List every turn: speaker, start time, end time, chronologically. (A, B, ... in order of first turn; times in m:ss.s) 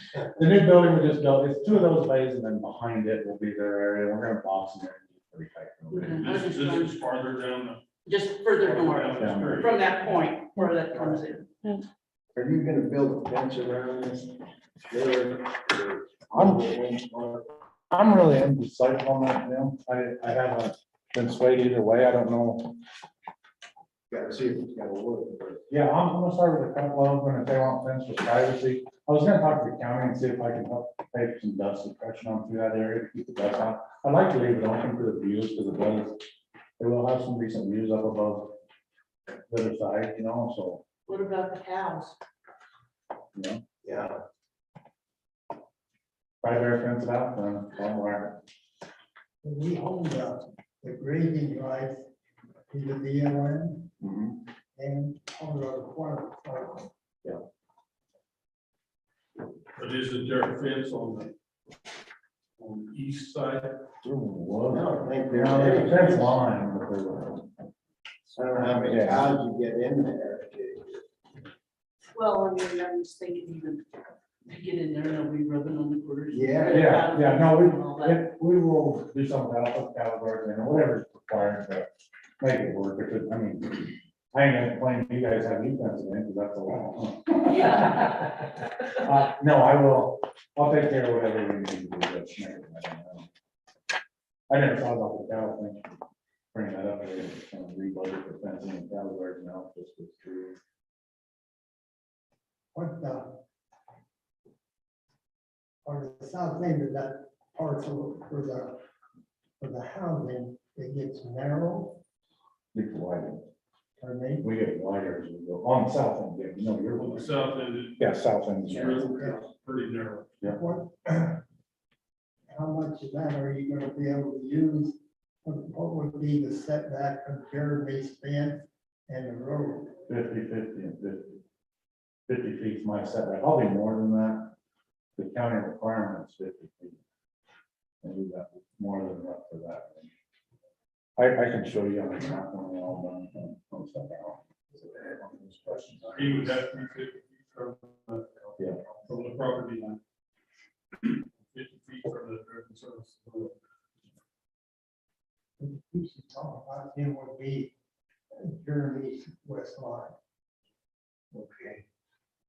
0:00.3-0:06.2 A
0:05.9-0:07.0 B
0:06.1-0:07.8 C
0:08.0-0:11.5 B
0:08.5-0:09.9 C
0:09.2-0:09.7 A
0:12.3-0:17.4 D
0:16.3-0:16.7 A
0:17.9-0:22.8 A
0:24.1-0:25.6 D
0:25.7-0:36.2 A
0:36.8-0:38.6 A
0:39.5-0:40.8 A
0:41.1-0:42.2 B
0:43.3-0:43.6 A
0:43.8-0:44.1 D
0:46.4-0:48.4 A
0:49.4-0:52.1 E
0:52.7-0:53.9 E
0:54.0-0:54.3 A
0:54.8-0:56.9 E
0:59.8-1:01.3 C
1:02.6-1:03.8 C
1:04.0-1:07.5 A
1:04.7-1:06.4 D
1:08.3-1:11.0 D
1:08.5-1:09.3 A
1:12.1-1:13.8 B
1:14.4-1:18.3 B
1:16.3-1:16.9 D
1:16.7-1:21.9 A
1:22.4-1:33.3 A
1:34.5-1:36.0 A
1:36.5-1:40.6 A
1:42.7-1:43.4 E
1:45.8-1:48.8 E
1:49.6-1:52.0 E
1:52.7-1:53.4 A
1:54.0-1:54.5 E
1:54.4-1:59.0 A
1:57.0-1:58.1 C
1:58.6-2:00.4 C
1:58.7-1:59.4 E
2:00.5-2:01.4 E
2:02.5-2:10.0 E
2:10.1-2:11.4 A
2:12.3-2:14.5 A
2:15.2-2:17.0 A
2:18.0-2:20.1 A
2:21.2-2:26.5 A
2:26.1-2:30.0 C
2:31.0-2:33.5 C
2:35.6-2:37.7 E
2:38.3-2:40.1 E
2:41.3-2:41.8 D